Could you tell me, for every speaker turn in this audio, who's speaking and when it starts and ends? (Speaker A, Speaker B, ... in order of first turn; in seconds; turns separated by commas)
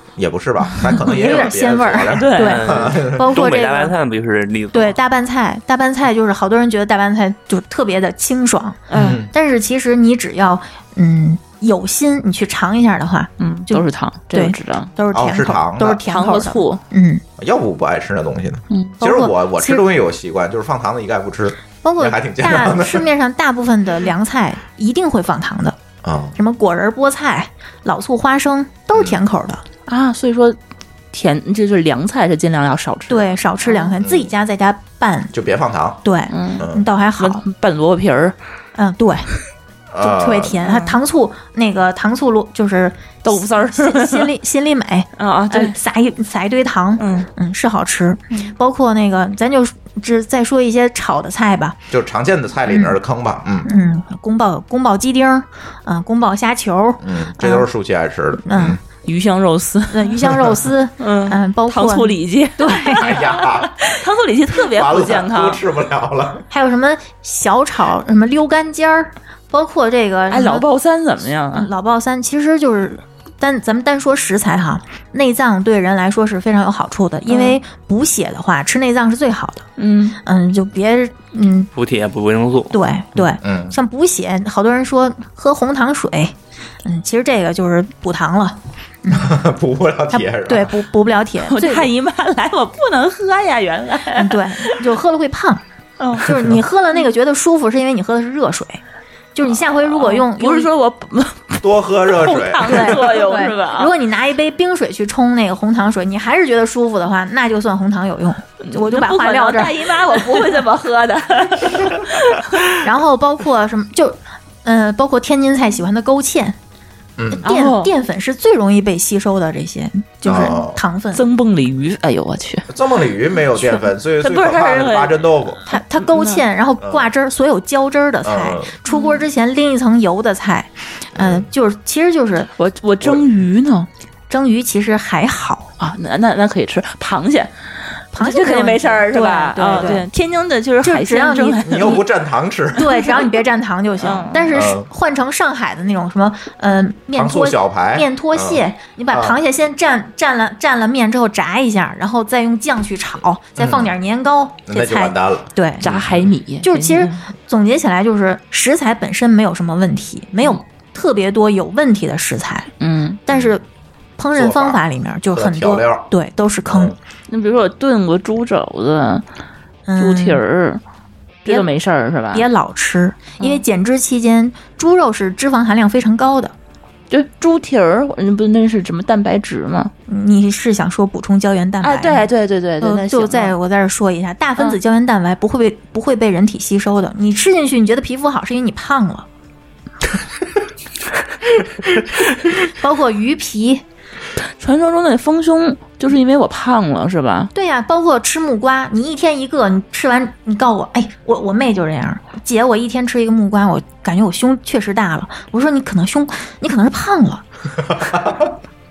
Speaker A: 0.2-3.5, Speaker B: 0.7-1.1, Speaker C: 0.9-3.9, Speaker B: 2.2-2.6, Speaker D: 2.4-5.0, Speaker C: 4.7-17.2, Speaker B: 8.9-9.2, Speaker A: 8.9-9.3, Speaker B: 13.4-14.9, Speaker A: 15.1-16.0, Speaker B: 16.1-16.8, Speaker A: 17.4-23.1, Speaker B: 18.7-19.0, Speaker C: 19.0-19.8, Speaker C: 21.8-25.8, Speaker A: 26.0-26.4, Speaker C: 26.4-29.6, Speaker A: 28.9-29.2, Speaker B: 29.9-30.6, Speaker B: 31.1-33.9, Speaker C: 33.1-35.3, Speaker A: 34.0-34.3, Speaker A: 35.3-36.0, Speaker C: 36.0-37.4, Speaker B: 36.3-36.6, Speaker A: 36.6-36.9, Speaker B: 37.2-38.4, Speaker C: 38.8-39.3, Speaker A: 39.9-40.6, Speaker C: 40.0-51.8, Speaker B: 40.6-41.0, Speaker B: 43.2-44.3, Speaker B: 45.2-45.8, Speaker B: 47.0-47.3, Speaker A: 51.9-53.7, Speaker C: 52.7-53.0, Speaker C: 53.6-57.7, Speaker A: 57.0-58.8, Speaker C: 58.5-58.8, Speaker B: 59.1-60.2, Speaker C: 59.9-63.1, Speaker B: 61.0-65.6, Speaker A: 63.0-63.8, Speaker A: 64.6-66.5, Speaker C: 66.5-70.7, Speaker B: 70.3-71.7, Speaker C: 71.5-79.7, Speaker B: 77.3-77.6, Speaker B: 79.8-80.2, Speaker C: 80.2-81.7, Speaker D: 81.8-82.8, Speaker C: 82.7-89.4, Speaker A: 83.2-83.8, Speaker A: 89.1-90.7, Speaker C: 90.1-91.9, Speaker B: 91.4-94.8, Speaker C: 94.2-95.6, Speaker B: 96.0-96.3, Speaker C: 96.2-98.8, Speaker C: 99.3-100.7, Speaker B: 99.9-103.9, Speaker A: 101.6-103.1, Speaker C: 102.6-110.6, Speaker B: 108.6-112.5, Speaker C: 112.8-116.6, Speaker A: 117.2-117.5, Speaker C: 117.4-121.2, Speaker B: 117.5-117.9, Speaker A: 120.2-120.8, Speaker B: 120.3-120.6, Speaker B: 121.1-122.7, Speaker A: 122.7-125.6, Speaker B: 124.2-126.4, Speaker C: 125.7-132.5, Speaker A: 126.8-127.1, Speaker A: 128.2-128.7, Speaker B: 128.9-129.2, Speaker A: 131.2-131.5, Speaker B: 132.6-133.9, Speaker C: 134.3-135.7, Speaker B: 135.8-137.5, Speaker C: 138.1-140.1, Speaker B: 138.2-142.0, Speaker C: 140.8-142.0, Speaker A: 141.6-142.9, Speaker C: 142.8-155.8, Speaker B: 144.0-144.6, Speaker A: 144.5-144.9, Speaker A: 147.2-149.4, Speaker A: 153.6-153.9, Speaker A: 154.7-156.3, Speaker B: 155.8-157.3, Speaker C: 156.6-162.7, Speaker B: 162.8-163.2, Speaker C: 163.3-163.6, Speaker A: 163.3-163.6, Speaker C: 164.2-166.9, Speaker A: 164.3-166.1, Speaker A: 166.7-167.0, Speaker B: 167.3-169.2, Speaker C: 169.9-170.4, Speaker B: 170.0-170.8, Speaker B: 171.4-172.4, Speaker C: 172.3-176.5, Speaker B: 177.1-179.9, Speaker C: 180.1-182.3, Speaker B: 181.8-183.5, Speaker C: 182.8-189.3, Speaker C: 192.7-193.8, Speaker B: 194.6-197.5, Speaker C: 197.6-207.4, Speaker A: 207.8-208.6